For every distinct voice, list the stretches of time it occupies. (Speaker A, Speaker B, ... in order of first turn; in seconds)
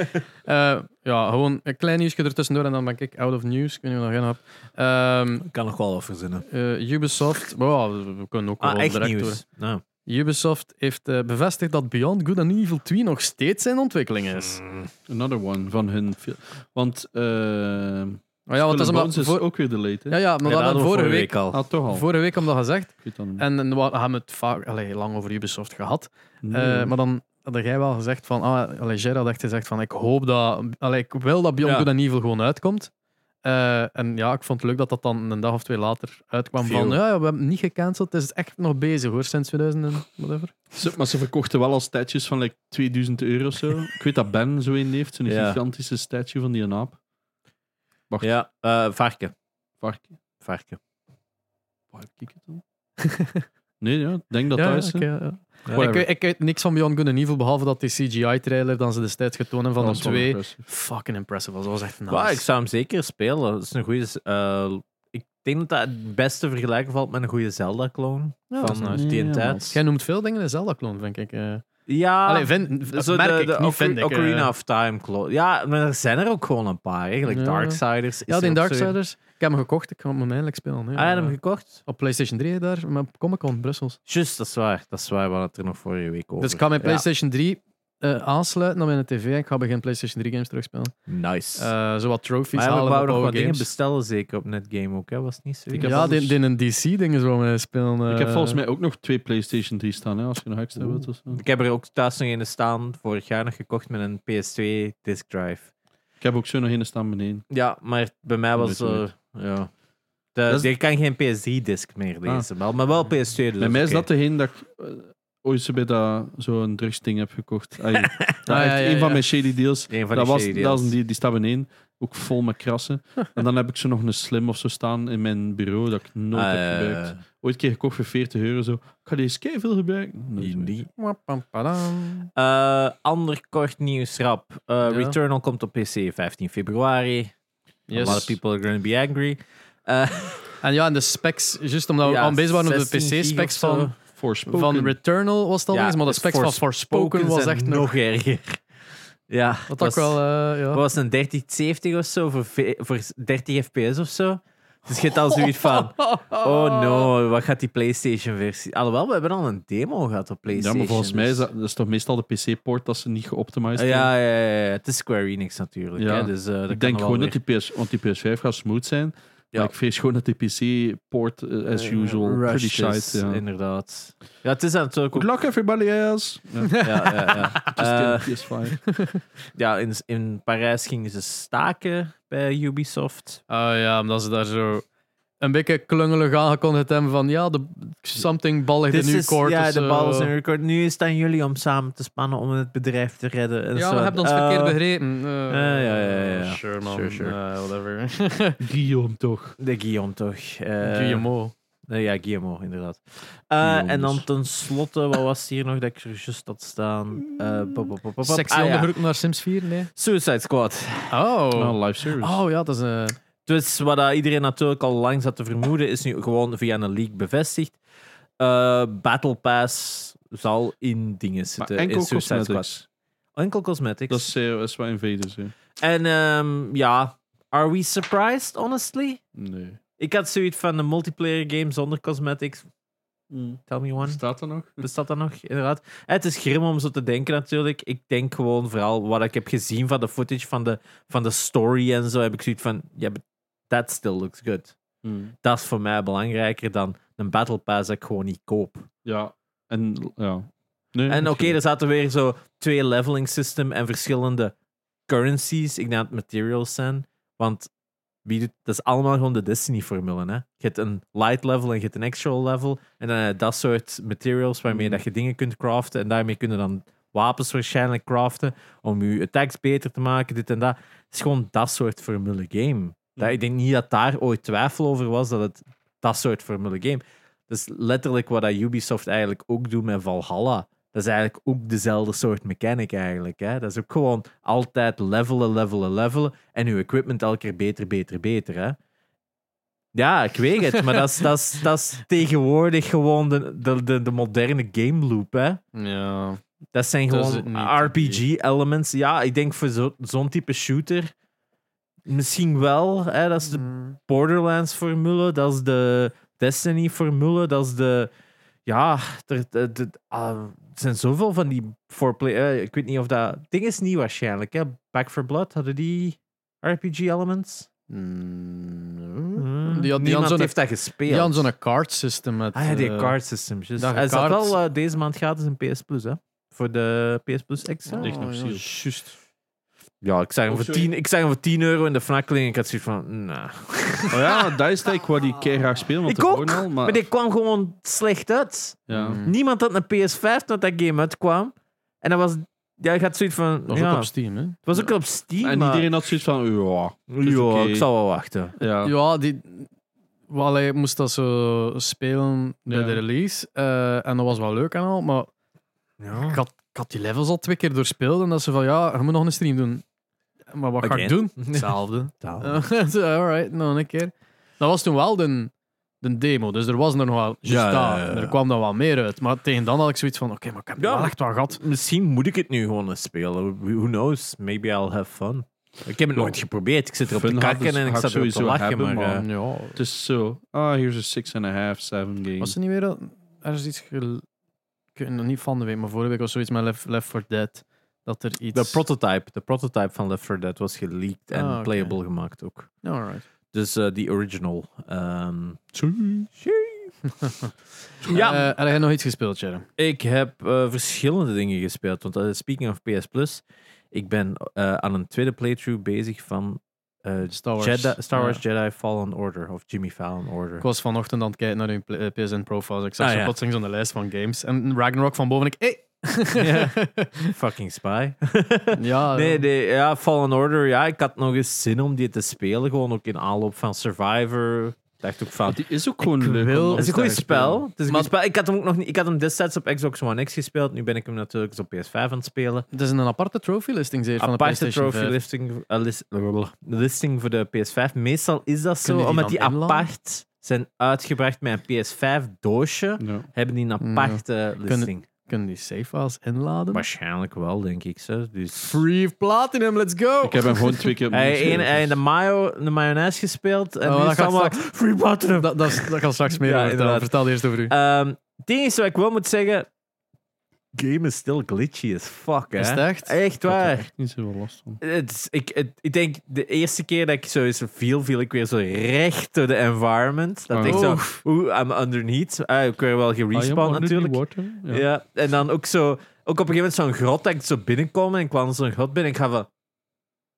Speaker A: 0.4-5.5, 6.5-9.4, 10.0-14.6, 18.5-19.4, 20.1-21.3, 21.9-32.9, 33.4-40.5, 53.0-53.5, 54.5-62.4, 68.5-69.0, 69.7-71.7, 72.2-74.5, 77.2-84.0, 86.4-90.9, 91.5-93.7, 95.8-98.6, 118.5-119.2, 131.0-132.3, 134.8-135.2, 137.9-138.3, 140.6-143.9, 144.5-147.9, 149.7-150.8, 155.3-157.1, 176.6-177.7, 178.9-179.2, 183.5-184.8, 185.4-190.3, 193.7-198.6, 200.8-201.5, 208.2-209.9, 211.1-213.2, 295.7-296.4, 297.1-298.2, 303.6-303.9, 317.9-320.5, 321.1-323.1, 323.8-324.6, 327.9-329.1, 338.9-339.3, 343.7-344.6, 348.8-349.7, 350.3-355.3, 356.3-359.8, 360.5-371.6, 379.1-379.8, 382.4-384.2, 384.9-388.8, 391.3-391.9, 392.8-393.2, 395.8-396.3, 397.2-397.4, 398.1-399.7, 407.3-408.4, 410.6-417.3, 418.7-419.4, 426.0-426.9, 432.7-435.1, 438.8-439.9, 443.8-446.8, 448.6-450.9, 453.8-454.6, 455.3-457.7, 462.6-463.7, 470.6-471.2
Speaker B: 5.4-6.4, 8.6-9.8, 14.4-14.9, 20.4-21.6, 31.6-31.9, 36.6-37.0, 45.2-45.6, 48.2-49.3, 50.4-50.8, 62.1-69.8, 71.9-78.9, 81.0-81.8, 84.1-87.0, 91.1-91.7, 92.5-96.0, 101.3-105.7, 107.5-109.7, 110.3-114.0, 118.0-118.3, 119.9-120.9, 126.3-127.2, 130.4-130.9, 132.3-137.3, 137.9-140.6, 142.0-143.9, 145.7-148.6, 149.3-150.2, 150.7-161.4, 163.8-167.4, 171.7-175.3, 176.8-178.3, 179.5-183.4, 188.9-194.8, 195.5-197.3, 199.6-201.2, 201.9-208.9, 209.9-211.1, 213.4-217.8, 218.4-222.7, 223.3-224.3, 225.8-229.2, 230.0-232.7, 233.7-234.2, 234.8-244.7, 245.4-248.9, 251.1-254.5, 255.1-257.7, 258.2-288.8, 289.9-295.6, 296.7-301.1, 302.1-308.1, 308.6-317.7, 319.4-321.5, 322.5-328.1, 330.0-334.6, 336.0-344.1, 344.6-345.9, 347.1-348.5, 356.0-356.4, 360.8-362.6, 367.4-368.4, 370.8-379.2, 388.5-392.7, 393.5-395.7, 396.4-396.9, 398.0-398.5, 399.8-410.6, 413.0-413.3, 416.4-416.8, 417.3-425.6, 426.8-432.6, 434.2-445.0, 446.7-448.8, 451.1-459.7, 460.7-463.9, 464.8-479.5
Speaker C: 15.1-20.2, 21.5-22.1, 23.0-23.4, 26.4-26.9, 40.7-47.0, 49.8-50.1, 51.9-52.6, 53.8-55.1, 55.7-56.0, 59.8-60.6, 68.9-69.7, 95.7-96.3, 98.1-101.4, 106.2-107.4, 108.6-109.0, 113.6-130.7, 137.9-138.2, 144.1-144.9, 160.5-164.1, 166.0-173.4, 175.1-178.8, 198.6-199.6, 203.6-204.2, 211.5-212.4, 221.6-222.8, 224.1-225.5, 229.3-229.8, 233.3-234.8, 245.0-245.3, 249.0-251.6, 328.0-328.6, 330.5-330.9, 334.1-337.0, 338.9-339.2, 345.4-347.9, 348.6-348.9, 352.7-353.0, 377.1-382.5, 425.5-427.6, 443.0-443.3, 450.2-451.9, 463.6-464.8, 470.5-470.9, 473.3-474.8